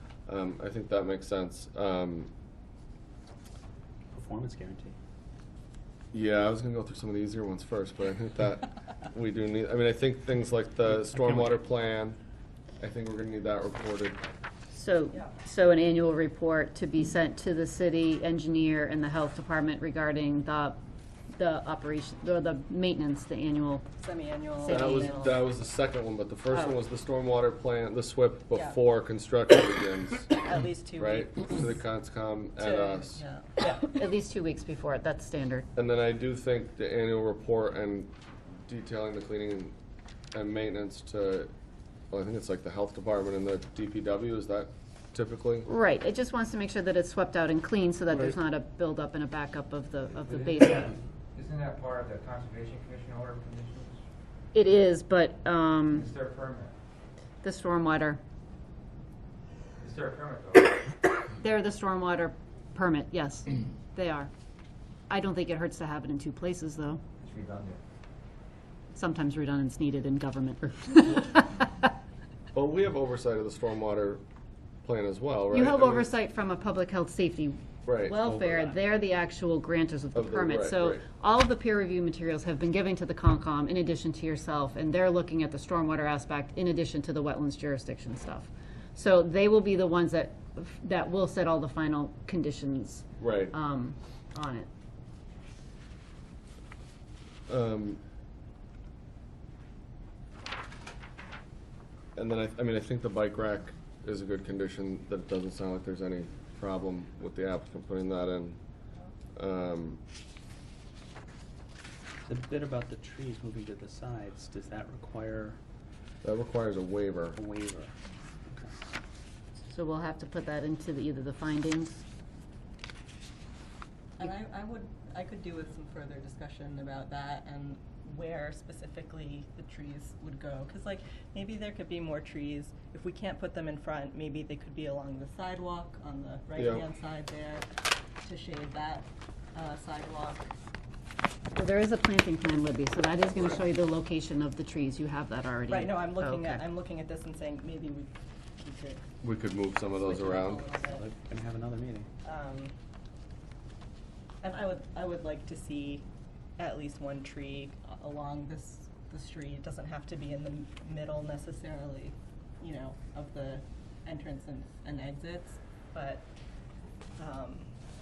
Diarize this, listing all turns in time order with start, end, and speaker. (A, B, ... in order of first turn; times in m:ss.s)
0:00.2-0:02.3 A
0:04.1-0:04.9 B
0:06.1-0:12.2 A
0:11.1-0:11.5 B
0:12.8-0:14.2 A
0:14.7-0:20.8 C
0:21.3-0:23.9 C
0:24.0-0:25.2 D
0:24.6-0:25.4 C
0:24.7-0:30.4 A
0:30.4-0:31.6 D
0:31.0-0:33.2 A
0:32.6-0:33.8 D
0:33.6-0:35.7 C
0:35.8-0:38.1 A
0:38.7-0:39.7 A
0:40.3-0:41.5 A
0:42.1-0:45.7 A
0:45.6-0:50.8 C
0:50.7-0:54.0 E
0:54.5-0:56.1 C
0:55.9-0:56.7 E
0:57.4-0:58.2 C
0:59.8-1:00.8 E
1:01.4-1:04.3 C
1:05.1-1:07.0 C
1:07.2-1:07.8 E
1:08.9-1:11.7 C
1:12.5-1:14.2 A
1:14.8-1:16.1 A
1:15.5-1:34.7 C
1:17.8-1:18.2 A
1:18.2-1:18.8 B
1:20.1-1:21.0 A
1:33.2-1:33.5 A
1:37.5-1:38.0 A
1:42.2-1:48.6 A
1:49.3-1:50.0 A
1:52.2-1:55.6 B
1:56.2-1:57.4 A
1:57.4-1:57.9 B
1:59.7-2:02.0 C
2:04.2-2:17.6 D
2:16.6-2:16.8 A
2:18.2-2:20.4 D
2:21.5-2:26.6 C
2:23.4-2:23.6 A
2:25.7-2:29.0 D
2:29.2-2:30.6 A
2:30.0-2:31.0 D
2:30.9-2:32.1 B
2:32.2-2:32.7 D
2:34.4-2:36.0 D
2:36.6-2:46.2 D
2:47.2-2:47.7 D